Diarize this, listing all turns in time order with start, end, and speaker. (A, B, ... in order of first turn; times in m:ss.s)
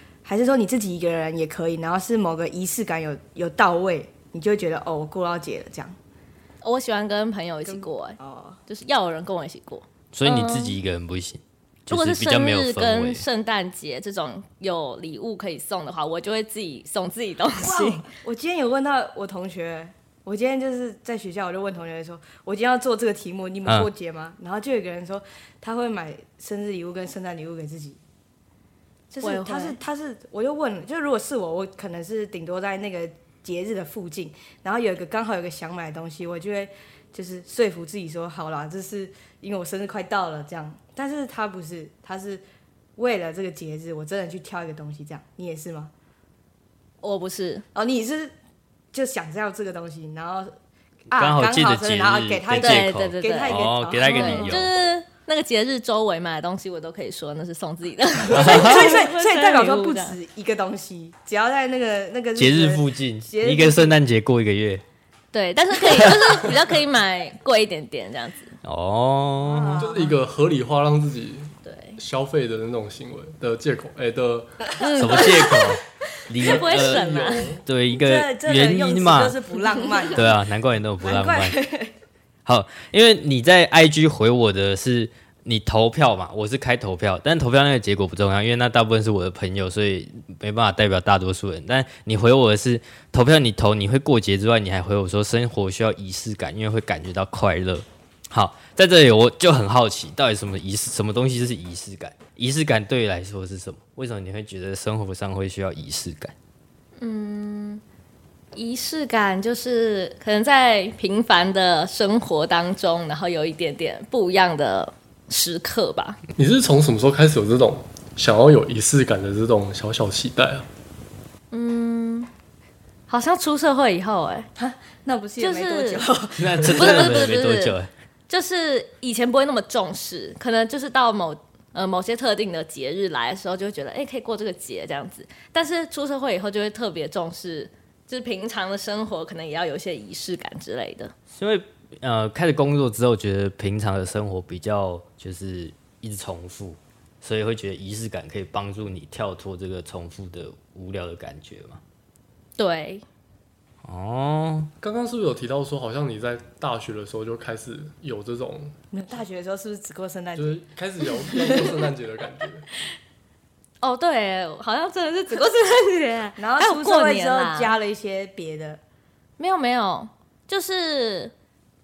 0:00.2-0:06.0 A
0:06.6-0:10.8 B
0:07.6-0:08.6 A
0:10.1-0:13.2 C
0:11.9-0:18.1 B
0:17.6-0:28.0 A
0:29.1-0:42.4 A
0:29.2-0:29.8 B
0:43.0-0:45.9 A
0:47.0-0:47.6 B
0:47.7-0:48.3 A
0:48.9-0:50.5 A
0:51.1-0:54.7 A
0:51.1-0:54.7 C
0:52.6-1:00.2 B
0:58.3-1:04.0 A
0:58.3-0:58.9 C
1:02.4-1:04.8 C
1:05.3-1:08.6 B
1:08.6-1:09.9 C
1:09.4-1:10.2 A
1:09.8-1:14.7 D
1:11.6-1:12.0 B
1:14.8-1:17.6 B
1:15.0-1:19.4 C
1:16.4-1:17.6 D
1:17.9-1:20.3 A
1:20.1-1:21.6 C
1:21.0-1:21.9 A
1:22.5-1:46.3 C
1:47.0-1:47.8 B
1:48.5-1:56.2 B
1:56.4-2:00.7 D
2:01.5-2:02.3 B
2:03.1-2:04.5 B
2:04.6-2:07.2 A
2:05.4-2:06.0 B
2:06.4-2:07.9 C
2:06.7-2:07.8 B
2:08.3-2:21.1 B
2:21.3-2:31.8 C
2:32.6-2:33.0 B
2:33.8-2:34.7 C
2:34.8-2:38.8 D
2:38.9-2:40.6 A
2:40.4-2:42.7 D
2:41.2-2:41.7 A
2:43.8-2:47.8 B
2:46.4-2:48.8 A
2:49.4-2:51.3 B